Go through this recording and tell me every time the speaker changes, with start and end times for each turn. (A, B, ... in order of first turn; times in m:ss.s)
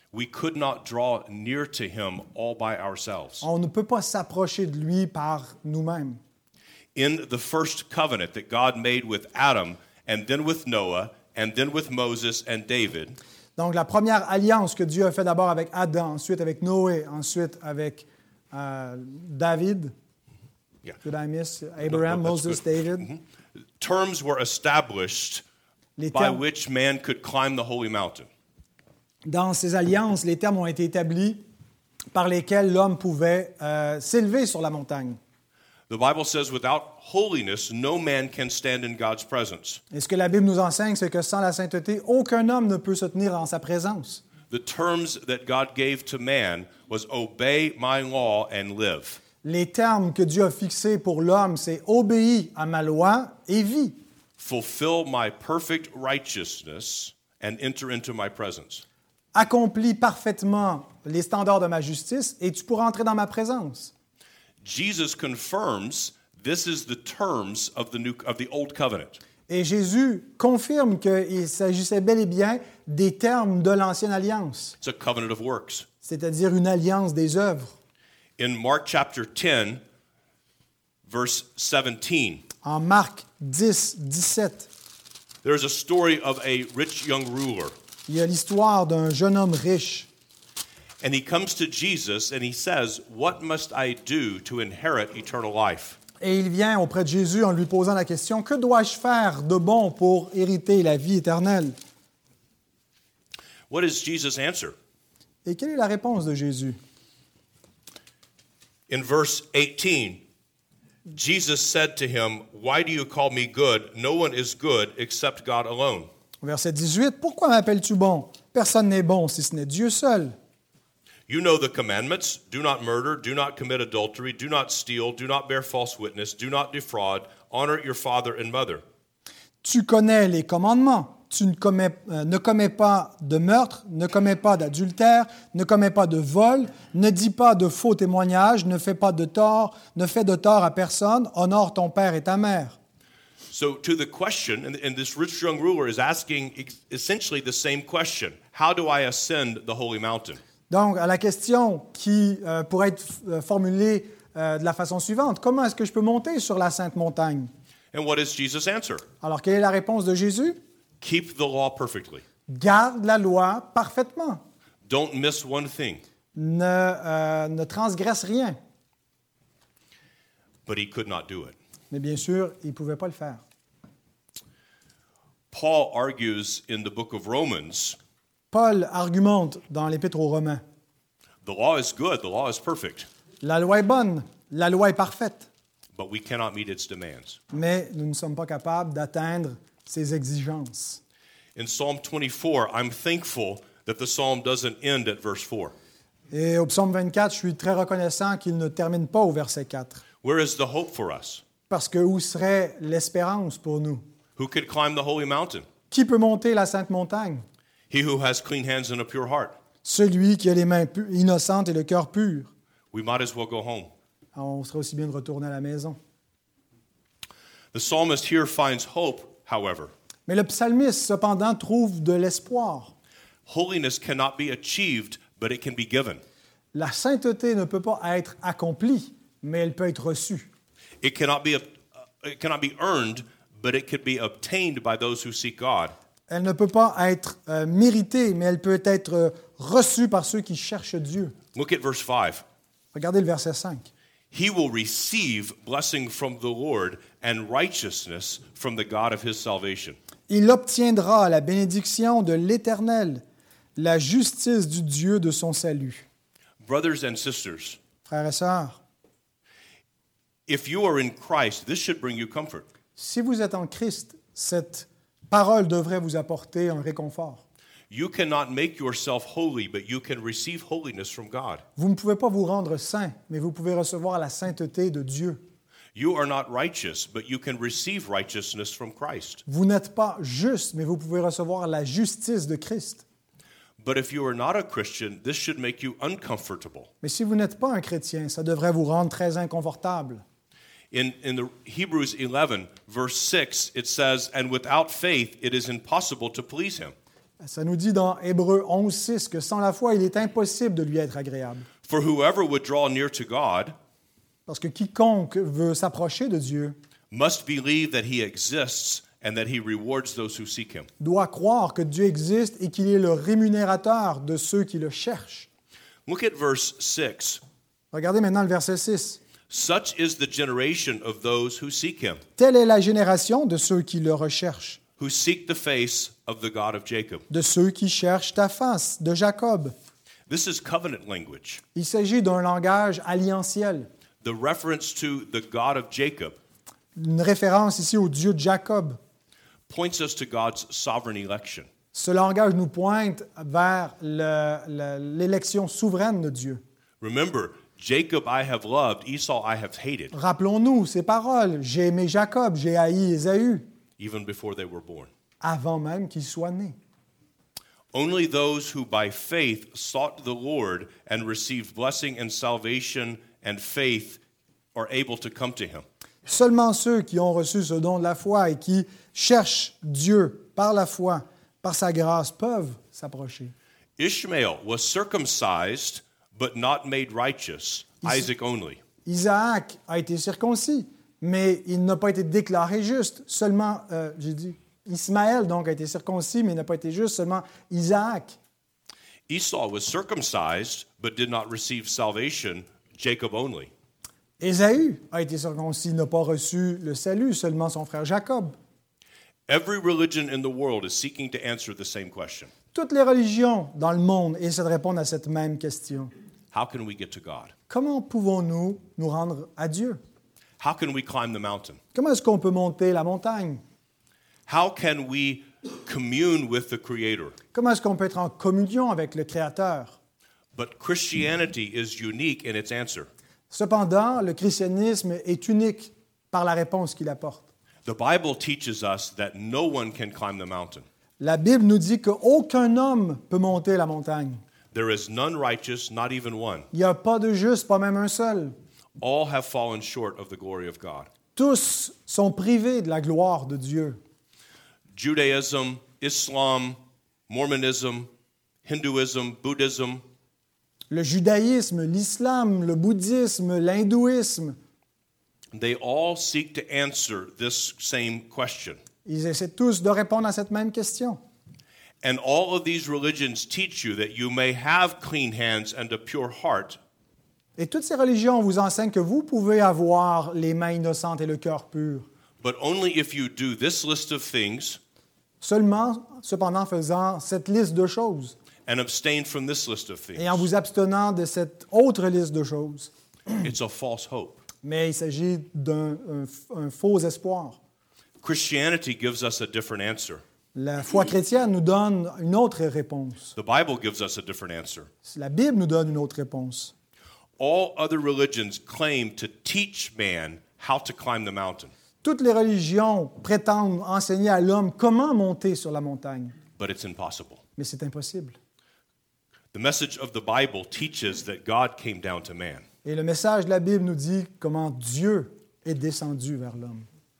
0:00.1-0:03.4 A
0:03.4-0:06.2 B
0:06.9-0:13.2 A
0:13.6-0:19.9 B
0:21.0-0:23.1 B
0:21.9-0:23.2 A
0:23.8-0:25.4 A
0:26.0-0:26.4 B
0:26.1-0:28.3 A
0:29.2-0:31.4 B
0:32.1-0:35.2 B
0:35.9-0:39.8 A
0:39.9-0:44.2 B
0:44.5-0:49.2 A
0:49.4-0:54.0 B
0:54.4-0:58.8 A
0:59.3-1:03.9 B
1:04.6-1:09.2 A
1:09.5-1:14.8 B
1:14.8-1:15.9 A
1:16.0-1:17.7 B
1:18.4-1:19.8 A
1:21.0-1:22.4 A
1:22.6-1:24.7 B
1:25.4-1:27.7 A
1:28.1-1:30.1 B
1:31.0-1:36.0 A
1:36.2-1:41.7 B
1:43.7-1:44.7 A
1:45.4-1:46.8 B
1:48.9-1:50.2 A
1:51.1-1:56.1 A
1:56.4-2:00.4 B
2:01.3-2:08.8 A
2:09.6-2:22.8 B
2:23.5-2:30.4 A
2:30.7-2:37.5 B
2:37.9-2:39.0 A
2:39.2-2:40.6 B
2:41.0-2:42.2 A
2:42.5-2:44.4 B
2:44.8-2:46.0 A
2:46.3-2:48.6 B
2:50.6-2:51.6 A
2:51.9-2:53.4 B
2:55.5-2:58.0 A
2:58.5-3:00.6 B
3:01.4-3:03.1 A
3:03.4-3:05.5 B
3:05.9-3:07.4 A
3:07.5-3:11.0 B
3:11.6-3:15.7 A
3:16.3-3:20.0 B
3:20.2-3:21.4 A
3:21.7-3:24.0 B
3:24.4-3:25.6 A
3:25.9-3:27.4 B
3:27.9-3:29.5 A
3:29.8-3:32.5 B
3:32.9-3:33.9 A
3:34.3-3:36.0 B
3:37.7-3:39.9 A
3:40.3-3:42.9 B
3:43.5-3:46.2 A
3:46.7-3:50.5 B
3:51.0-3:55.9 A
3:56.3-4:01.3 B
4:01.5-4:02.4 A
4:02.9-4:03.9 B
4:04.3-4:10.0 A
4:10.3-4:13.2 B
4:13.8-4:16.0 B
4:16.6-4:17.8 A
4:18.0-4:18.8 B
4:20.5-4:22.7 A
4:23.0-4:27.4 B
4:27.9-4:31.6 A
4:31.8-4:35.4 B
4:35.9-4:39.4 A
4:39.5-4:43.0 B
4:43.8-4:46.9 A
4:47.0-4:50.2 B
4:50.9-4:56.9 A
4:57.4-5:01.6 B
5:01.8-5:03.7 A
5:04.5-5:06.8 B
5:07.1-5:10.9 A
5:11.0-5:15.5 B
5:16.0-5:17.4 A
5:17.9-5:19.2 B
5:19.5-5:22.2 A
5:22.4-5:24.8 B
5:25.0-5:27.2 A
5:27.3-5:29.7 B
5:30.3-5:31.6 A
5:31.7-5:33.9 B
5:34.2-5:36.4 A
5:36.9-5:39.0 B
5:39.7-5:41.7 A
5:41.9-5:46.6 B
5:47.0-5:50.1 A
5:50.1-5:53.6 B
5:54.0-5:55.1 A
5:55.4-5:56.8 B
5:57.9-6:04.2 A
6:04.7-6:05.8 A
6:06.2-6:13.5 B
6:14.0-6:18.8 A
6:18.0-6:18.3 B
6:19.0-6:28.4 B
6:29.3-6:33.7 A
6:34.4-6:38.5 B
6:39.5-6:42.5 A
6:42.7-6:46.1 B
6:46.5-6:47.5 A
6:47.7-6:50.0 B
6:50.6-6:51.8 A
6:51.9-6:53.6 B
6:54.5-6:57.3 A
6:57.5-7:00.0 B
7:00.5-7:03.1 A
7:03.5-7:07.4 B
7:07.8-7:10.8 A
7:11.2-7:14.4 B
7:14.7-7:16.7 A
7:16.7-7:18.5 B
7:19.0-7:21.1 A
7:21.4-7:24.0 B
7:24.9-7:28.1 A
7:28.6-7:30.0 A
7:30.9-7:34.6 B
7:35.5-7:38.8 A
7:39.0-7:41.2 B
7:42.0-7:46.8 A
7:47.6-7:52.0 B
7:52.4-7:54.8 A
7:55.4-7:58.3 B
7:58.6-8:00.4 A
8:00.2-8:02.9 B
8:03.4-8:04.4 A
8:04.6-8:07.6 B
8:08.2-8:10.2 A
8:10.5-8:13.3 B
8:13.3-8:14.9 A
8:15.0-8:16.7 B
8:17.4-8:21.7 A
8:22.0-8:26.3 B
8:26.6-8:27.4 A
8:27.6-8:28.4 B
8:29.5-8:32.6 A
8:32.8-8:36.9 B